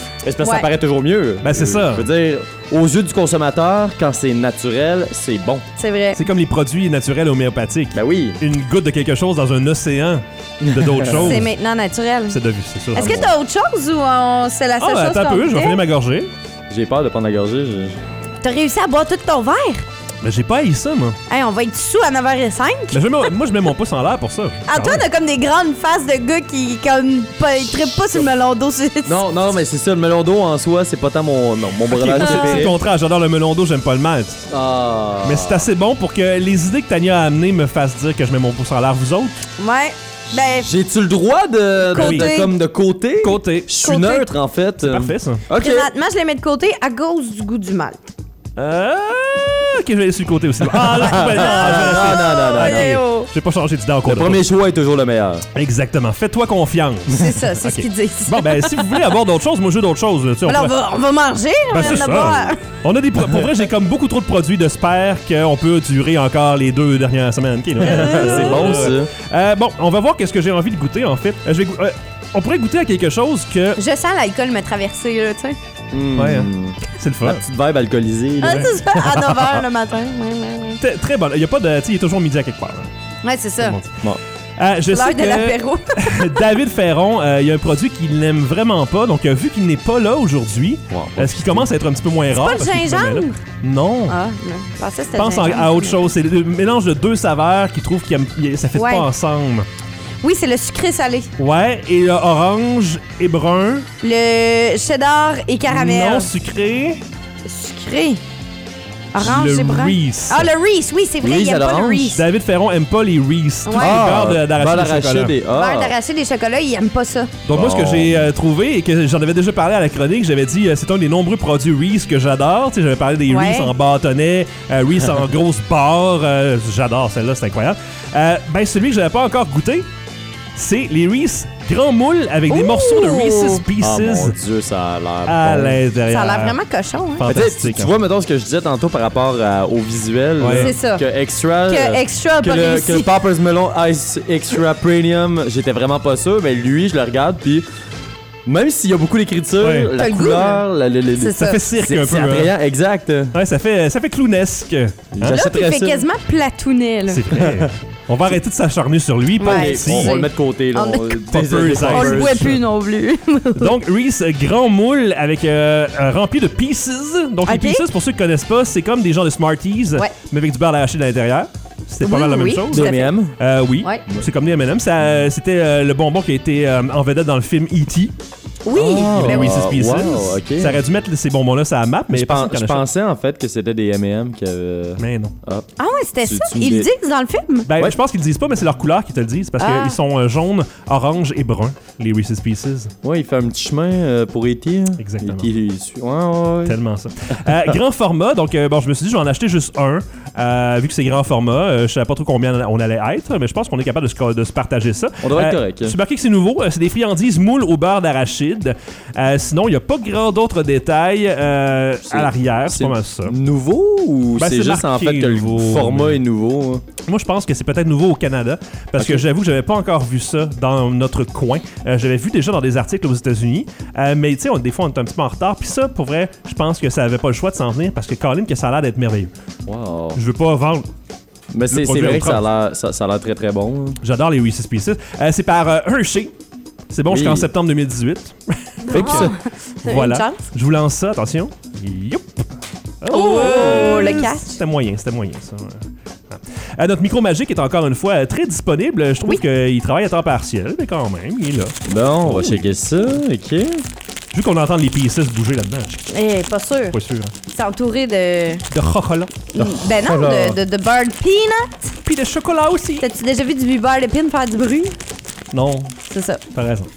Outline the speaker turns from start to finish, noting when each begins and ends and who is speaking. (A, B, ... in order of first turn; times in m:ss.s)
0:00.2-0:05.6 A
0:00.4-0:00.7 B
0:01.4-0:02.0 C
0:05.8-0:06.2 B
0:06.2-0:11.5 C
0:07.9-0:08.4 A
0:10.6-0:11.4 A
0:11.1-0:12.4 B
0:12.3-0:13.3 C
0:12.9-0:15.8 B
0:12.9-0:13.3 A
0:14.8-0:16.3 C
0:16.7-0:18.0 A
0:18.4-0:19.8 B
0:20.2-0:21.2 C
0:21.3-0:23.3 B
0:22.9-0:25.0 C
0:24.6-0:29.2 B
0:29.0-0:32.8 A
0:31.9-0:34.4 C
0:32.2-0:32.7 B
0:34.5-0:35.7 A
0:35.2-0:39.4 C
0:39.6-0:40.7 B
0:40.3-0:45.9 A
0:41.9-0:42.5 B
0:41.9-0:42.3 C
0:43.2-0:43.7 C
0:43.7-0:44.3 B
0:44.8-0:45.4 C
0:45.5-0:48.1 B
0:48.6-0:54.4 C
0:50.7-0:53.0 A
0:51.2-0:53.3 B
0:54.0-0:55.4 A
0:55.5-1:00.7 C
0:57.1-0:59.0 B
1:00.4-1:02.6 B
1:01.7-1:13.8 C
1:01.8-1:02.5 A
1:07.8-1:09.1 A
1:07.8-1:08.9 B
1:13.8-1:15.6 B
1:15.9-1:19.4 A
1:16.2-1:17.4 C
1:18.4-1:20.8 B
1:18.4-1:18.7 C
1:20.8-1:22.9 C
1:23.2-1:23.8 B
1:23.6-1:23.9 C
1:24.6-1:34.2 C
1:24.9-1:26.4 B
1:30.9-1:31.7 A
1:32.3-1:33.4 B
1:34.1-1:36.1 B
1:35.2-1:39.7 C
1:38.8-1:39.1 B
1:40.2-1:41.3 B
1:41.4-1:43.9 C
1:44.0-1:46.3 B
1:45.7-1:47.0 C
1:47.4-1:48.2 B
1:49.1-1:52.2 B
1:49.2-1:50.5 C
1:51.2-1:52.2 A
1:52.1-1:55.3 C
1:53.6-1:54.1 B
1:53.8-1:56.0 A
1:55.5-1:57.3 B
1:57.4-2:09.9 C
1:57.5-1:58.3 A
2:03.3-2:03.7 B
2:10.5-2:14.4 C
2:12.5-2:13.6 B
2:13.8-2:15.8 A
2:15.2-2:16.6 C
2:16.1-2:17.2 B
2:17.2-2:17.9 C
2:17.2-2:27.6 A
2:20.4-2:20.7 C
2:20.6-2:21.0 B
2:21.7-2:23.1 B
2:28.4-2:33.3 A
2:29.6-2:29.9 C
2:30.0-2:30.6 B
2:31.2-2:31.6 B
2:31.4-2:32.5 C
2:33.3-2:35.4 C
2:35.1-2:36.0 A
2:35.3-2:37.3 B
2:37.1-2:40.1 C
2:37.3-2:37.7 A
2:39.4-2:43.7 B
2:39.4-2:42.6 A
2:41.3-2:42.6 C
2:43.6-2:58.1 C
2:47.4-2:47.9 B
2:52.0-2:53.1 B
2:52.7-2:53.3 A
2:58.6-2:59.6 B
2:58.7-3:00.8 A
2:59.2-3:02.8 C
3:02.1-3:05.7 A
3:05.0-3:05.3 C
3:05.8-3:07.7 B
3:06.2-3:06.9 A
3:07.7-3:12.9 C
3:09.6-3:10.0 B
3:13.0-3:16.8 A
3:15.0-3:15.5 C
3:16.6-3:33.4 C
3:25.2-3:26.0 A
3:32.1-3:36.8 A
3:34.4-3:36.2 C
3:37.0-3:49.3 C
3:39.0-3:39.2 A
3:49.7-3:50.2 A
3:50.1-3:50.9 C
3:51.5-3:54.0 A
3:51.7-3:52.4 C
3:54.0-3:56.3 C
3:56.9-4:02.4 C
3:57.1-3:57.5 A
3:58.9-4:00.4 B
3:58.9-3:59.4 A
4:03.0-4:12.8 C
4:03.1-4:04.6 B
4:03.2-4:04.2 A
4:11.8-4:13.8 A
4:14.3-4:16.0 C
4:16.1-4:16.9 B
4:16.9-4:17.3 C
4:17.5-4:18.6 B
4:18.7-4:19.4 C
4:19.5-4:21.9 B
4:19.6-4:20.6 A
4:22.0-4:23.0 C
4:23.0-4:24.9 B
4:25.5-4:25.9 C
4:26.1-4:26.4 B
4:26.5-4:26.9 C